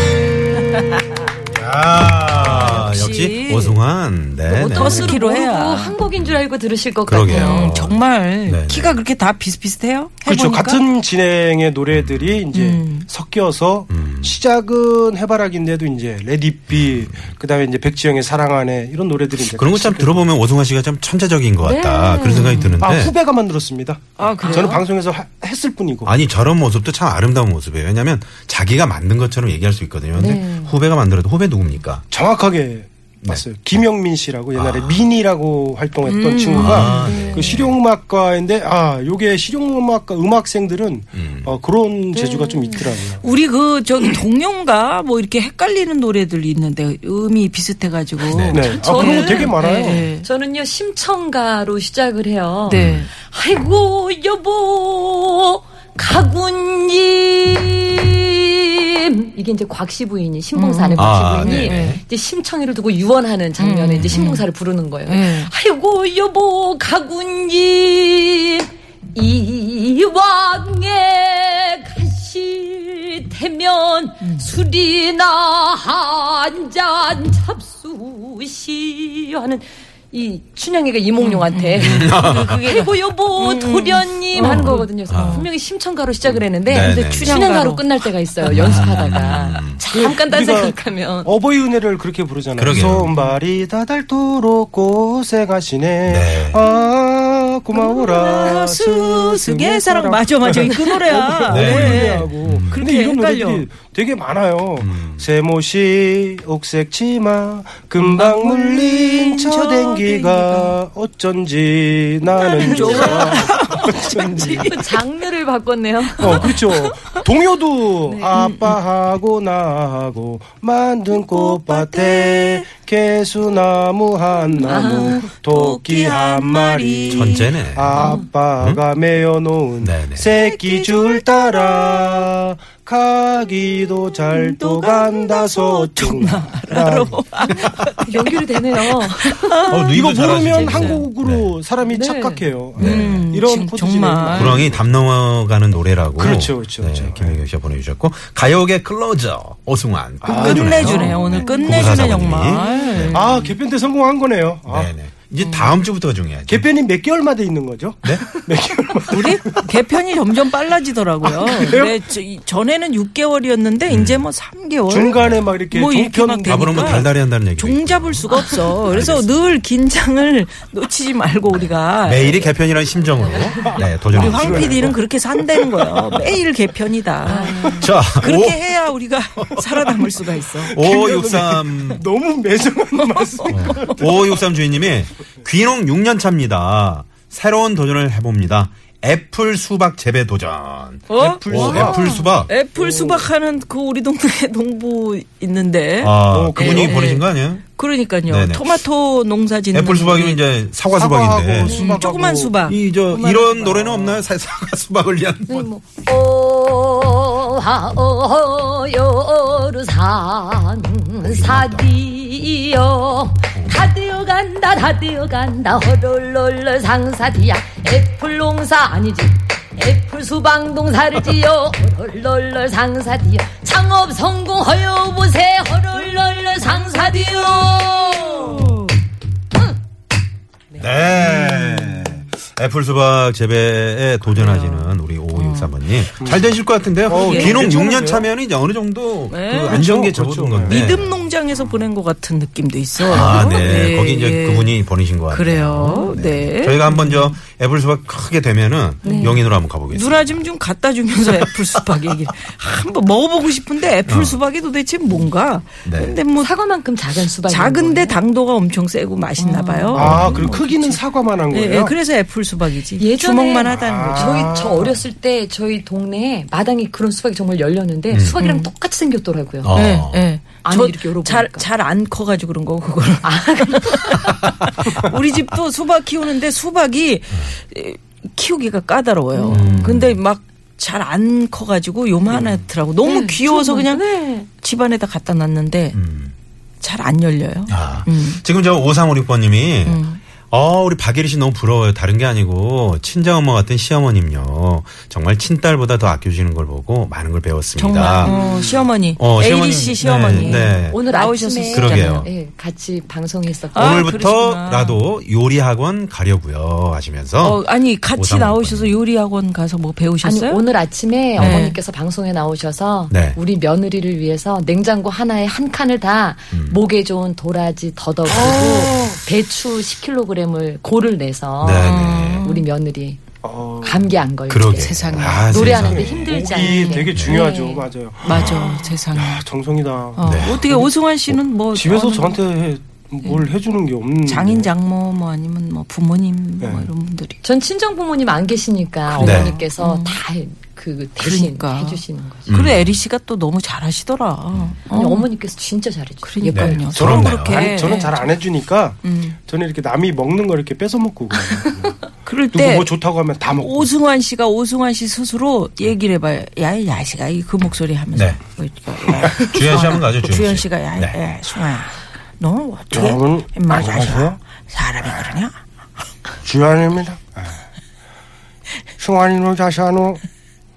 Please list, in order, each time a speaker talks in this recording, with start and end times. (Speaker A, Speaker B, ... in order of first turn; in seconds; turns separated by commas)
Speaker A: 1.5-5.2, Speaker B: 2.4-3.8, Speaker B: 4.5-6.0, Speaker C: 4.7-7.7, Speaker A: 6.2-6.4, Speaker A: 7.0-9.0, Speaker B: 7.2-10.8, Speaker D: 10.2-20.3, Speaker A: 11.9-12.4, Speaker B: 12.5-13.1, Speaker A: 13.9-14.4, Speaker A: 16.7-17.1, Speaker A: 19.4-23.1, Speaker C: 21.6-22.8, Speaker B: 22.2-22.8, Speaker D: 22.8-26.1, Speaker B: 24.2-24.8, Speaker A: 26.1-32.0, Speaker C: 30.1-30.7, Speaker D: 32.1-43.2, Speaker A: 34.5-35.0, Speaker B: 36.0-37.1, Speaker A: 36.6-37.8, Speaker C: 36.9-37.6, Speaker A: 41.1-41.5, Speaker C: 42.1-42.8, Speaker B: 43.2-50.2, Speaker A: 48.3-48.7, Speaker D: 48.5-50.1, Speaker C: 48.5-91.3, Speaker B: 52.7-53.1, Speaker A: 52.7-53.1, Speaker B: 60.5-62.0, Speaker A: 61.0-62.0, Speaker B: 63.6-64.5, Speaker B: 65.0-65.5, Speaker B: 81.2-85.5, Speaker A: 81.8-82.6, Speaker A: 84.4-85.5, Speaker A: 86.7-87.4, Speaker B: 86.8-87.8, Speaker A: 88.4-89.8, Speaker B: 88.5-88.9, Speaker D: 89.9-114.7, Speaker A: 92.6-93.1, Speaker A: 96.1-96.6, Speaker B: 97.8-103.7, Speaker A: 101.5-102.8, Speaker A: 104.8-105.2, Speaker B: 108.0-110.8, Speaker C: 112.4-116.5, Speaker B: 112.4-115.0, Speaker D: 116.2-137.2, Speaker B: 116.2-117.2, Speaker B: 118.1-118.8, Speaker B: 121.1-122.7, Speaker B: 124.6-128.1, Speaker C: 124.7-125.3, Speaker A: 127.1-128.0, Speaker C: 128.0-128.2, Speaker A: 129.8-130.3, Speaker B: 130.7-131.7, Speaker B: 134.3-141.1, Speaker C: 138.0-139.7, Speaker A: 139.7-141.5, Speaker D: 139.9-144.8, Speaker C: 141.8-142.5, Speaker A: 142.8-143.3, Speaker B: 142.8-144.7, Speaker A: 144.3-153.3, Speaker D: 146.2-147.4, Speaker D: 150.2-151.2, Speaker B: 150.3-153.5, Speaker C: 151.3-153.1, Speaker D: 153.1-154.9, Speaker A: 154.7-156.6, Speaker B: 155.4-155.8, Speaker D: 156.5-159.7, Speaker A: 158.0-158.4, Speaker B: 159.1-172.5, Speaker D: 161.2-162.0, Speaker A: 163.9-164.3, Speaker D: 164.9-167.1, Speaker A: 165.1-165.4, Speaker A: 166.4-169.6, Speaker A: 172.0-174.9, Speaker C: 173.2-173.8, Speaker D: 173.6-175.0, Speaker B: 174.1-180.8, Speaker C: 177.2-177.8, Speaker D: 177.4-177.8, Speaker A: 177.7-178.7, Speaker A: 179.4-179.9, Speaker D: 180.6-184.4, Speaker A: 180.7-182.0, Speaker B: 183.0-183.9, Speaker A: 183.5-192.5, Speaker B: 191.1-200.4, Speaker D: 191.1-192.1, Speaker D: 192.8-193.3, Speaker A: 196.0-197.6, Speaker D: 196.3-197.0, Speaker A: 198.3-198.8, Speaker A: 199.7-201.8, Speaker D: 200.9-202.6, Speaker B: 201.7-204.2, Speaker A: 202.7-205.7, Speaker C: 205.5-228.8, Speaker A: 211.2-211.9, Speaker B: 226.6-228.9, Speaker A: 230.8-241.2, Speaker B: 231.1-232.2, Speaker B: 234.3-235.7, Speaker D: 236.2-236.5, Speaker D: 237.1-238.3, Speaker B: 237.2-237.6, Speaker B: 239.3-239.8, Speaker D: 239.6-240.9, Speaker B: 240.7-244.8, Speaker A: 243.1-250.4, Speaker B: 245.3-247.3, Speaker C: 245.8-246.1, Speaker C: 249.0-249.4, Speaker B: 249.0-256.5, Speaker A: 254.1-254.4, Speaker A: 255.8-256.2, Speaker C: 256.4-258.2, Speaker B: 257.1-264.5, Speaker C: 259.4-260.0, Speaker D: 259.9-261.9, Speaker A: 259.9-260.5, Speaker C: 263.0-269.8, Speaker D: 263.7-265.0, Speaker A: 268.1-268.4, Speaker B: 268.4-268.7, Speaker A: 269.6-270.3, Speaker B: 269.7-286.0, Speaker C: 270.6-271.7, Speaker C: 273.2-274.4, Speaker C: 279.3-279.9, Speaker A: 279.5-280.2, Speaker C: 283.0-284.5, Speaker A: 285.9-286.3, Speaker B: 286.8-288.4, Speaker A: 287.7-298.4, Speaker B: 289.8-290.2, Speaker B: 297.8-302.3, Speaker D: 298.2-298.8, Speaker A: 299.2-301.0, Speaker C: 300.3-304.1, Speaker A: 301.6-302.3, Speaker B: 303.7-305.0, Speaker A: 303.7-307.6, Speaker B: 307.4-310.6, Speaker A: 308.1-309.0, Speaker C: 310.2-323.2, Speaker A: 311.4-311.6, Speaker B: 311.4-311.8, Speaker A: 313.1-313.4, Speaker A: 316.5-316.8, Speaker D: 318.2-319.2, Speaker A: 321.6-322.5, Speaker B: 321.8-322.6, Speaker D: 323.4-324.1, Speaker C: 323.8-327.9, Speaker A: 324.5-326.2, Speaker B: 324.7-325.8, Speaker D: 325.5-334.7, Speaker B: 326.6-327.0, Speaker A: 327.1-327.4, Speaker B: 328.2-329.4, Speaker A: 328.3-328.6, Speaker B: 330.1-332.4, Speaker A: 330.2-330.6, Speaker B: 334.2-337.4, Speaker D: 336.6-336.9, Speaker C: 337.4-342.5, Speaker B: 339.1-340.2, Speaker A: 339.1-339.5, Speaker B: 341.2-345.3, Speaker A: 342.5-343.0, Speaker A: 344.5-344.8, Speaker C: 344.9-346.9, Speaker B: 346.2-348.4, Speaker A: 346.5-347.7, Speaker D: 346.8-352.0, Speaker B: 349.0-349.4, Speaker B: 352.2-352.9, Speaker D: 352.5-353.9, Speaker B: 353.5-365.6, Speaker A: 358.1-358.4, Speaker A: 359.2-361.2, Speaker D: 362.9-364.4, Speaker D: 366.4-367.6, Speaker D: 369.0-370.2